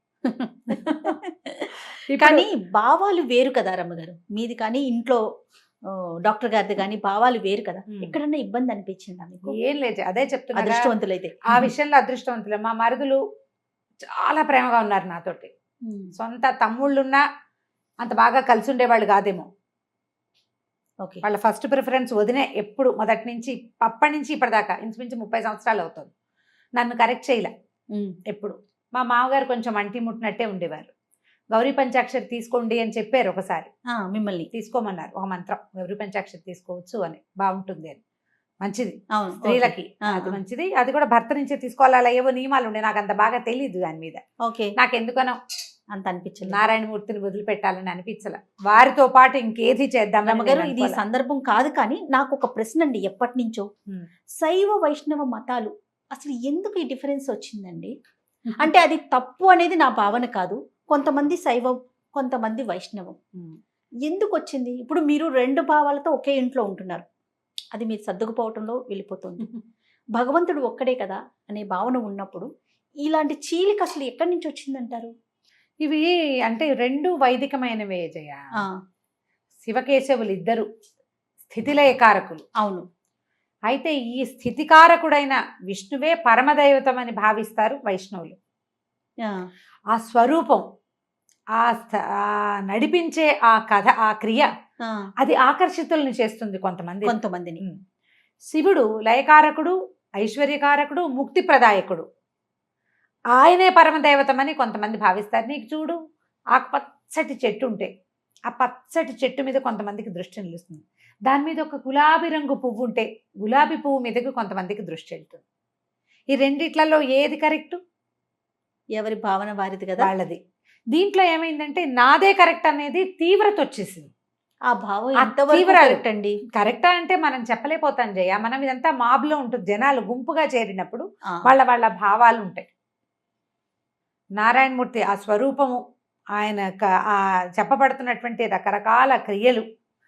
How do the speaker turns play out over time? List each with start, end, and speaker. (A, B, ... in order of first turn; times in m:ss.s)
0:00.3-0:05.2 A
0:00.7-0:01.1 B
0:02.1-0:02.5 B
0:06.2-0:09.6 A
0:09.5-0:10.9 B
0:10.5-0:11.7 A
0:11.5-0:13.2 B
0:14.2-0:15.5 B
0:16.2-0:17.2 B
0:18.0-0:19.5 B
0:21.2-0:26.1 B
0:26.8-0:27.5 B
0:28.3-0:30.9 B
0:31.5-0:33.7 B
0:33.9-0:34.5 A
0:34.5-0:38.0 B
0:38.6-0:44.2 B
0:39.1-0:40.4 A
0:44.4-0:44.7 A
0:44.8-0:45.4 B
0:45.9-0:46.6 A
0:46.4-0:51.0 B
0:50.2-0:53.7 A
0:54.4-0:57.9 A
0:58.6-1:03.2 A
1:04.0-1:07.0 A
1:07.7-1:09.5 A
1:10.1-1:12.5 A
1:13.0-1:15.1 A
1:15.8-1:18.4 B
1:19.6-1:20.7 B
1:21.5-1:22.4 B
1:22.6-1:22.8 A
1:23.7-1:28.4 B
1:29.9-1:30.6 B
1:31.6-1:34.5 B
1:35.2-1:37.8 B
1:37.0-1:37.6 A
1:38.5-1:42.0 B
1:43.3-1:46.0 B
1:46.5-1:47.9 B
1:48.5-1:55.4 B
1:56.3-1:57.8 B
1:59.0-2:00.1 A
2:00.0-2:00.4 B
2:00.9-2:04.1 B
2:04.7-2:06.4 A
2:05.2-2:12.6 B
2:14.4-2:15.8 B
2:16.4-2:19.6 B